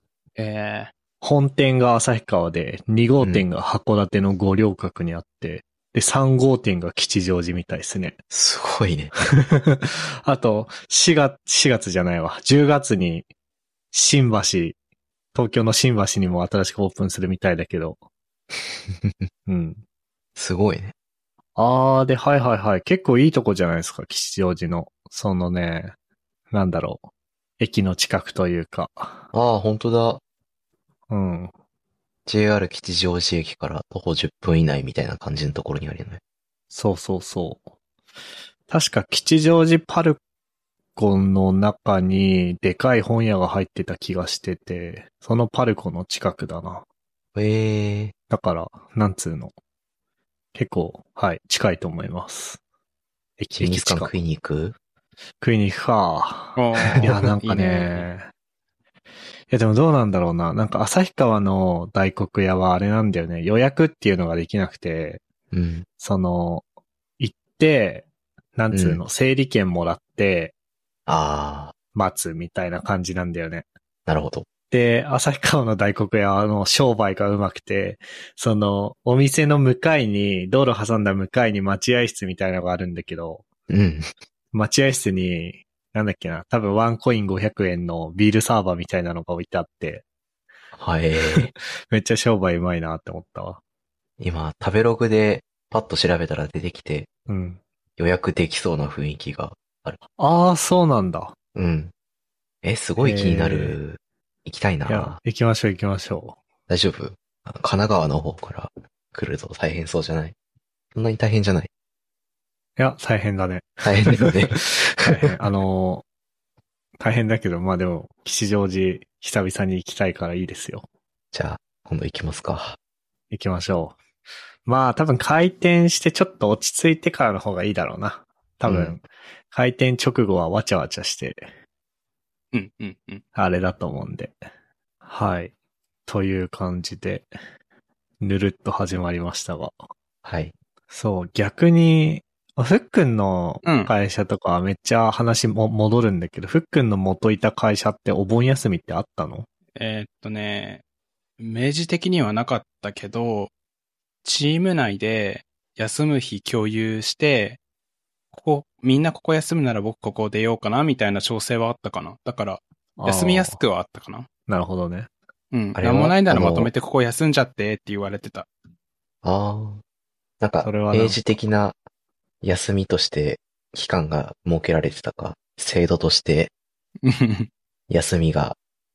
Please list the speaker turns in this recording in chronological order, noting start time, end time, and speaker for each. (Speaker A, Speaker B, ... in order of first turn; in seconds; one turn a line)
Speaker A: 0.4-0.9
Speaker B: 1.2-8.2
Speaker C: 3.2-3.5
Speaker C: 8.3-9.1
Speaker B: 9.3-13.2
Speaker B: 13.9-14.8
Speaker B: 15.3-18.0
Speaker B: 19.5-19.8
Speaker C: 20.4-20.9
Speaker B: 21.6-25.9
Speaker B: 26.5-27.0
Speaker B: 27.6-29.2
Speaker C: 29.3-30.2
Speaker B: 31.1-31.5
Speaker C: 32.3-36.2
Speaker B: 36.7-37.6
Speaker B: 38.7-40.2
Speaker B: 41.0-46.8
Speaker C: 47.4-48.1
Speaker B: 48.3-49.5
Speaker B: 50.5-52.6
Speaker B: 53.4-54.1
Speaker C: 53.6-54.8
Speaker B: 55.4-58.3
Speaker A: 56.6-58.1
Speaker B: 59.5-65.2
Speaker C: 65.5-65.9
Speaker B: 66.0-66.7
Speaker B: 67.2-70.5
Speaker C: 68.7-69.0
Speaker C: 71.1-71.7
Speaker B: 72.0-73.7
Speaker C: 74.1-74.5
Speaker B: 74.7-83.5
Speaker C: 83.7-84.1
Speaker B: 84.5-90.0
Speaker C: 90.8-91.5
Speaker B: 91.2-93.6
Speaker C: 94.2-97.1
Speaker B: 97.3-97.6
Speaker C: 98.0-100.0
Speaker B: 100.2-101.3
Speaker C: 101.5-101.9
Speaker C: 102.6-105.2
Speaker B: 103.0-103.8
Speaker B: 104.9-106.4
Speaker C: 106.7-110.3
Speaker C: 111.0-111.7
Speaker B: 112.8-116.0
Speaker C: 113.8-115.3
Speaker B: 117.0-120.8
Speaker C: 121.3-122.8
Speaker B: 123.3-124.0
Speaker B: 124.7-131.5
Speaker C: 128.7-129.0
Speaker A: 132.5-133.2
Speaker B: 133.3-134.3
Speaker B: 135.1-135.5
Speaker B: 136.1-137.3
Speaker B: 138.2-139.7
Speaker C: 140.2-140.5
Speaker B: 140.9-149.5
Speaker A: 143.6-143.9
Speaker A: 149.8-150.8
Speaker A: 151.4-153.5
Speaker A: 154.2-157.6
Speaker A: 158.3-164.3
Speaker B: 163.0-163.6
Speaker B: 164.5-165.1
Speaker A: 165.5-168.5
Speaker C: 165.8-166.7
Speaker C: 169.2-169.8
Speaker C: 170.4-171.8
Speaker B: 170.6-171.2
Speaker C: 172.4-176.5
Speaker A: 177.0-177.5
Speaker C: 177.9-178.6